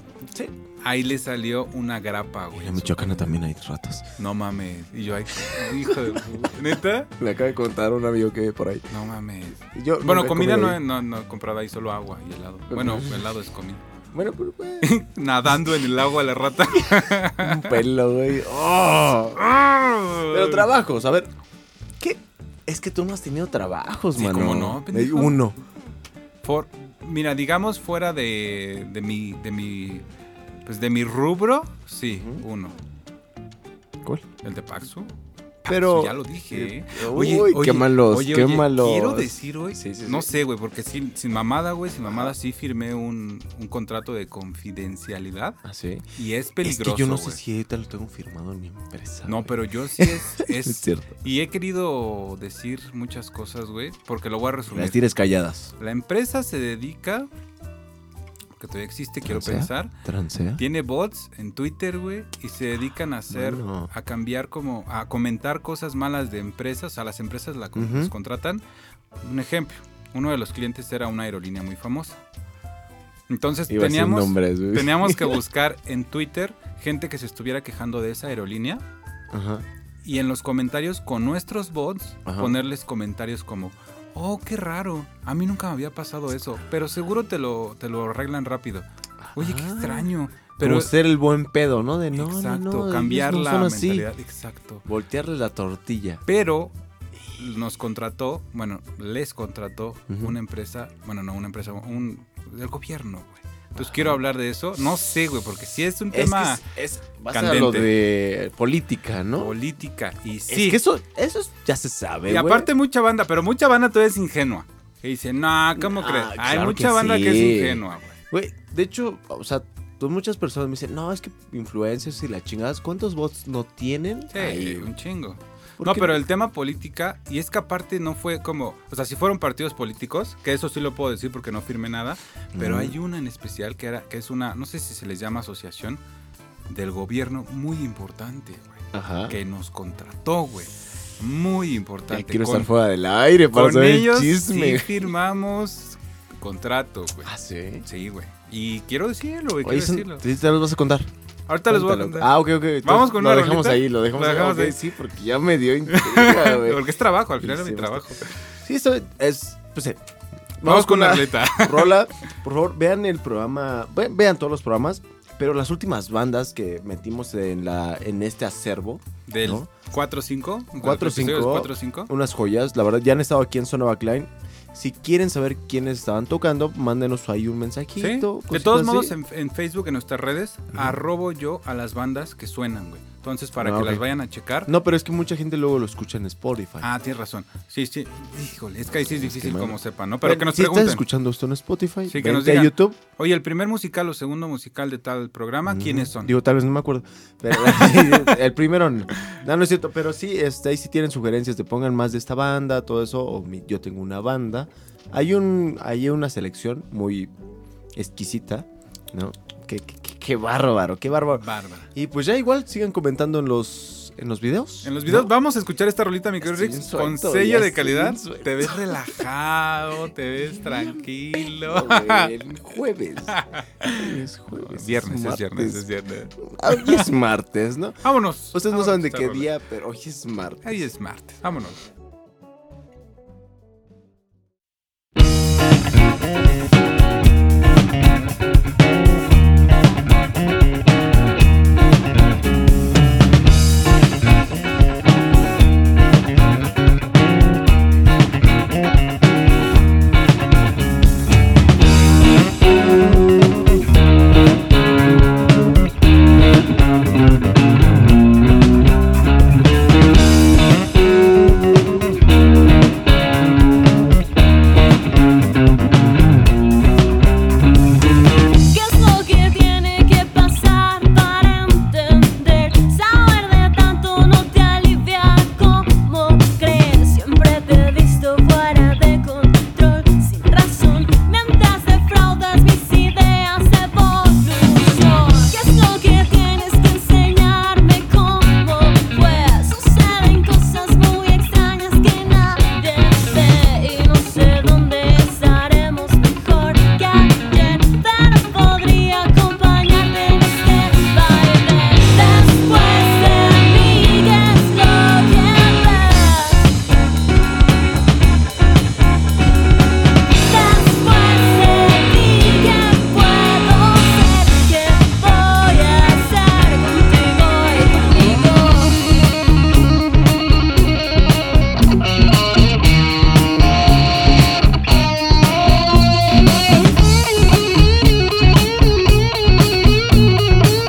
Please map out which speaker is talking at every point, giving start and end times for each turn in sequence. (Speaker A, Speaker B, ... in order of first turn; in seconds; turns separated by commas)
Speaker A: 0.8-3.4, Speaker B: 2.5-4.1, Speaker A: 4.2-7.1, Speaker B: 5.4-6.5, Speaker B: 7.2-8.9, Speaker A: 8.9-13.8, Speaker B: 9.6-10.8, Speaker B: 12.7-13.3, Speaker B: 14.1-14.9, Speaker A: 14.8-17.8, Speaker B: 16.7-21.3, Speaker A: 19.4-20.7, Speaker B: 22.0-25.6, Speaker A: 24.1-25.4, Speaker A: 26.4-30.1, Speaker A: 30.6-32.8, Speaker B: 32.1-32.4, Speaker A: 34.4-35.1, Speaker A: 35.6-45.6, Speaker B: 35.7-40.3, Speaker B: 42.0-42.3, Speaker B: 45.6-46.1, Speaker A: 46.1-47.4, Speaker B: 46.6-51.2, Speaker A: 49.2-55.0, Speaker B: 54.7-55.7, Speaker A: 55.8-57.3, Speaker A: 58.5-59.9, Speaker B: 59.2-60.6, Speaker A: 60.6-68.6, Speaker B: 63.3-63.9, Speaker B: 67.7-68.1, Speaker A: 69.2-72.2, Speaker A: 73.3-78.8, Speaker B: 73.7-75.4, Speaker B: 79.3-79.7, Speaker A: 80.0-90.9, Speaker B: 82.2-82.6, Speaker B: 89.2-94.1, Speaker A: 92.1-94.8, Speaker B: 94.8-96.2, Speaker A: 96.2-96.7, Speaker A: 97.3-106.6, Speaker B: 100.1-100.4, Speaker B: 103.8-104.2, Speaker B: 106.1-109.5, Speaker A: 107.3-107.9, Speaker A: 109.3-110.8, Speaker B: 110.5-112.7, Speaker A: 112.3-118.2, Speaker B: 115.7-124.9, Speaker A: 124.3-136.0, Speaker B: 125.8-126.2, Speaker B: 132.5-132.9, Speaker A: 136.7-142.7, Speaker B: 138.9-139.4, Speaker B: 142.1-145.1, Speaker A: 143.5-147.3, Speaker B: 147.2-147.8, Speaker A: 147.8-150.2, Speaker B: 149.6-151.1, Speaker A: 151.5-152.3, Speaker B: 151.7-156.8, Speaker A: 152.8-154.8, Speaker A: 155.9-158.3, Speaker B: 157.4-160.0, Speaker B: 160.6-169.7, Speaker A: 160.6-162.0, Speaker A: 169.3-172.1, Speaker B: 170.8-179.1, Speaker A: 178.0-184.7, Speaker B: 180.7-181.0, Speaker B: 183.6-184.0, Speaker B: 184.6-186.9, Speaker A: 186.8-191.0, Speaker B: 189.0-193.0, Speaker A: 192.1-196.3, Speaker B: 195.7-207.3, Speaker A: 197.5-198.3, Speaker B: 207.9-215.3, Speaker A: 211.3-211.9, Speaker A: 214.8-222.4, Speaker B: 216.4-219.2, Speaker B: 220.4-225.8, Speaker A: 223.3-227.1, Speaker B: 226.4-230.8, Speaker A: 228.0-229.5, Speaker A: 230.6-231.8, Speaker C: 268.5-306.8, Speaker C: 310.4-319.0